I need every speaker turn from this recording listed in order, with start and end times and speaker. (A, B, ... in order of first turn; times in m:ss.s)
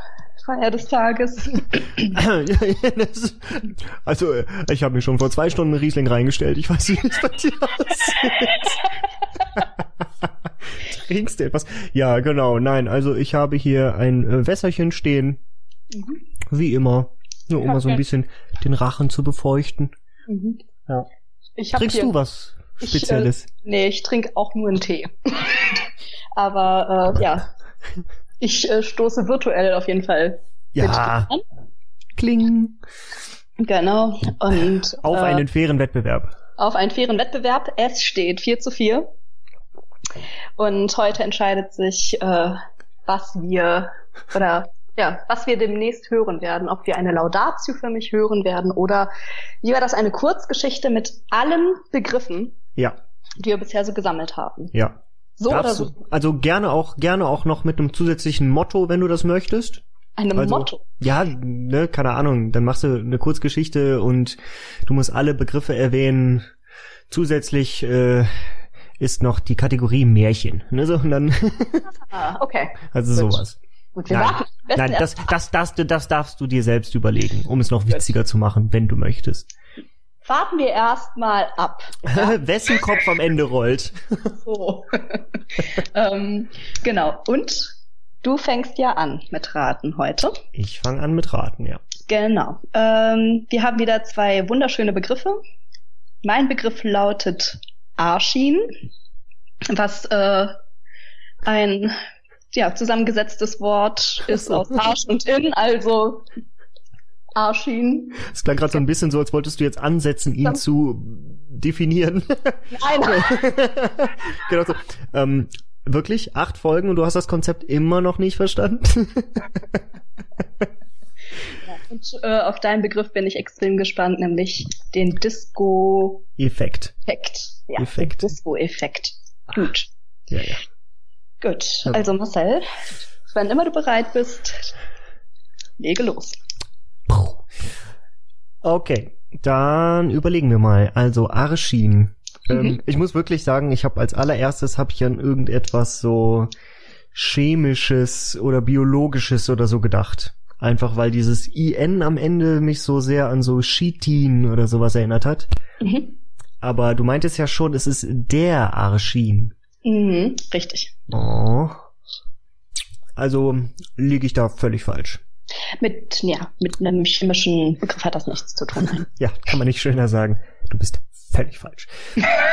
0:00.4-0:02.1 A
0:02.1-0:08.8 B
0:09.6-0:15.4 B
0:15.9-0:16.2 A
0:16.5-0:19.9 B
0:17.6-0:18.0 A
0:20.3-0:20.6 A
0:21.6-0:22.1 A
0:21.8-0:23.5 B
0:22.8-0:27.5 A
0:28.4-0:31.4 A
0:30.7-0:31.3 B
0:32.2-0:32.8 B
0:33.6-0:35.4 A
0:35.0-0:36.4 B
0:36.6-0:39.1 A
0:40.6-0:49.1 A
0:49.6-0:52.6 A
0:53.4-0:54.7 A
0:54.7-0:59.8 B
0:55.4-0:55.9 A
1:00.2-1:00.8 A
1:00.4-1:06.5 B
1:07.1-1:11.9 B
1:12.1-1:13.4 A
1:12.9-1:13.6 B
1:14.0-1:15.1 A
1:14.1-1:19.5 B
1:20.3-1:22.4 A
1:22.0-1:24.4 B
1:24.3-1:30.4 A
1:30.6-1:31.8 B
1:32.1-1:35.4 A
1:36.2-1:38.7 A
1:39.7-1:40.5 A
1:41.4-1:42.0 A
1:42.5-1:46.3 A
1:47.4-1:48.2 A
1:48.2-1:59.8 B
1:52.7-1:53.3 A
2:01.6-2:06.3 A
2:06.4-2:07.0 B
2:07.1-2:09.9 A
2:07.8-2:08.3 B
2:10.3-2:10.6 B
2:11.4-2:12.7 A
2:13.3-2:14.7 A
2:15.8-2:16.4 A
2:17.1-2:17.5 B
2:18.6-2:26.5 B
2:27.1-2:35.5 B
2:35.8-2:36.2 A
2:36.6-2:39.5 B
2:39.8-2:41.0 A
2:41.1-2:41.8 B
2:43.2-2:45.2 B
2:45.8-2:49.1 A
2:49.1-2:51.9 B